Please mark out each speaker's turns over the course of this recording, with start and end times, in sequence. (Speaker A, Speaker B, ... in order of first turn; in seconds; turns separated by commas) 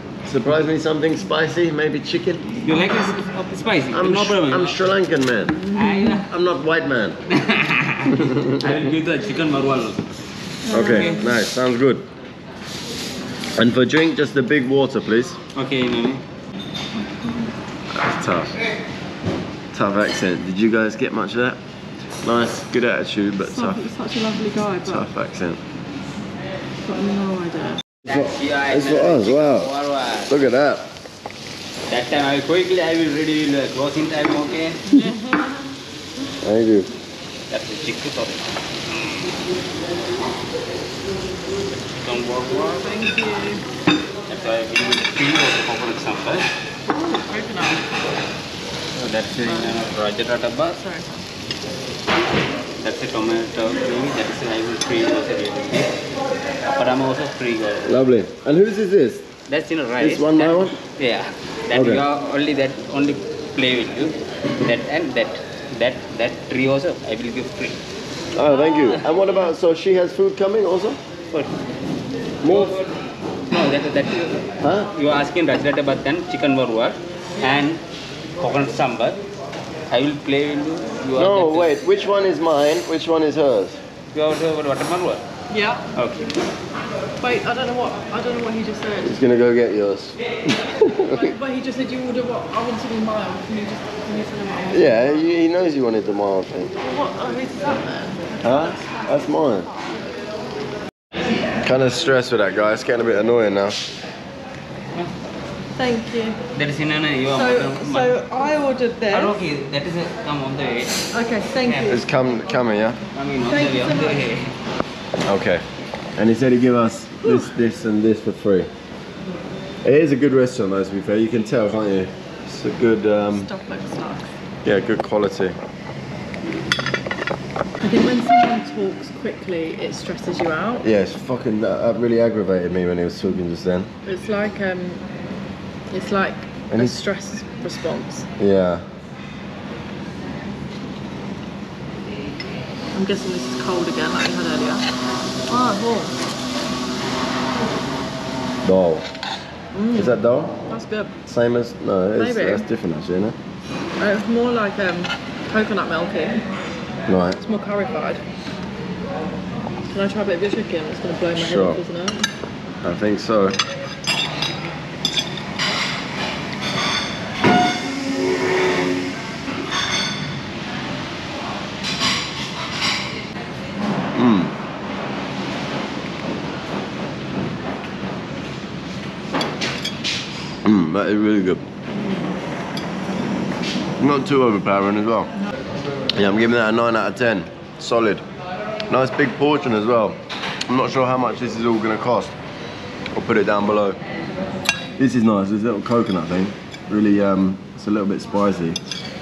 Speaker A: 0.2-2.4, Speaker B: 2.6-4.8, Speaker A: 3.9-5.6, Speaker B: 5.7-6.2, Speaker A: 6.3-7.2, Speaker B: 7.3-10.0, Speaker A: 8.1-8.6, Speaker C: 10.7-11.2, Speaker B: 10.7-11.3, Speaker A: 10.7-12.1, Speaker A: 13.6-15.4, Speaker B: 15.5-16.2, Speaker A: 17.9-18.5, Speaker A: 19.7-21.6, Speaker A: 22.2-23.9, Speaker C: 23.5-25.1, Speaker A: 24.8-25.6, Speaker C: 26.9-27.8, Speaker B: 28.1-30.3, Speaker A: 28.1-29.7, Speaker A: 30.3-30.9, Speaker B: 31.9-35.0, Speaker A: 36.4-36.9, Speaker B: 37.5-38.5, Speaker B: 42.0-42.8, Speaker C: 42.7-43.6, Speaker B: 44.3-46.5, Speaker C: 46.9-47.9, Speaker B: 49.0-50.8, Speaker C: 49.5-49.8, Speaker C: 50.8-51.2, Speaker B: 52.8-56.0, Speaker B: 56.7-58.0, Speaker A: 57.8-59.2, Speaker B: 59.5-67.8, Speaker A: 60.0-60.8, Speaker A: 61.7-62.0, Speaker A: 68.3-71.0, Speaker A: 72.4-72.7, Speaker B: 72.4-72.9, Speaker B: 73.5-77.8, Speaker A: 74.6-74.9, Speaker B: 78.4-79.2, Speaker B: 79.9-81.8, Speaker A: 81.2-83.8, Speaker B: 84.1-85.2, Speaker C: 85.5-85.8, Speaker B: 85.9-86.3, Speaker C: 87.2-89.1, Speaker A: 89.0-90.2, Speaker A: 90.7-91.3, Speaker C: 91.1-95.1, Speaker A: 94.7-96.7, Speaker C: 96.8-98.3, Speaker A: 98.4-99.7, Speaker A: 101.6-103.8, Speaker C: 105.8-106.4, Speaker B: 106.5-108.1, Speaker C: 107.3-109.3, Speaker B: 109.1-111.1, Speaker C: 111.1-112.0, Speaker B: 111.6-112.0, Speaker A: 111.9-113.0, Speaker B: 113.1-114.5, Speaker C: 113.5-114.3, Speaker A: 115.2-115.6, Speaker A: 116.2-118.7, Speaker A: 119.8-123.5, Speaker C: 123.3-124.3, Speaker A: 124.6-125.5, Speaker C: 127.8-130.8, Speaker A: 130.8-133.9, Speaker C: 134.0-135.0, Speaker C: 135.9-138.3, Speaker A: 136.7-136.9, Speaker A: 138.4-138.8, Speaker C: 142.9-144.9, Speaker C: 145.5-146.1, Speaker A: 148.6-149.1, Speaker C: 149.7-150.2, Speaker A: 149.9-150.5, Speaker C: 150.7-151.2, Speaker A: 151.3-153.3, Speaker C: 152.2-152.6, Speaker C: 154.0-156.4, Speaker A: 157.1-157.4, Speaker C: 157.4-158.2, Speaker C: 159.9-162.2, Speaker A: 161.3-161.8, Speaker A: 162.8-163.6, Speaker A: 174.1-174.5, Speaker A: 180.6-181.6, Speaker C: 181.9-182.2, Speaker A: 184.0-185.3, Speaker A: 186.1-188.2, Speaker A: 188.9-190.2, Speaker A: 190.7-192.3, Speaker A: 193.1-194.0, Speaker A: 195.0-198.8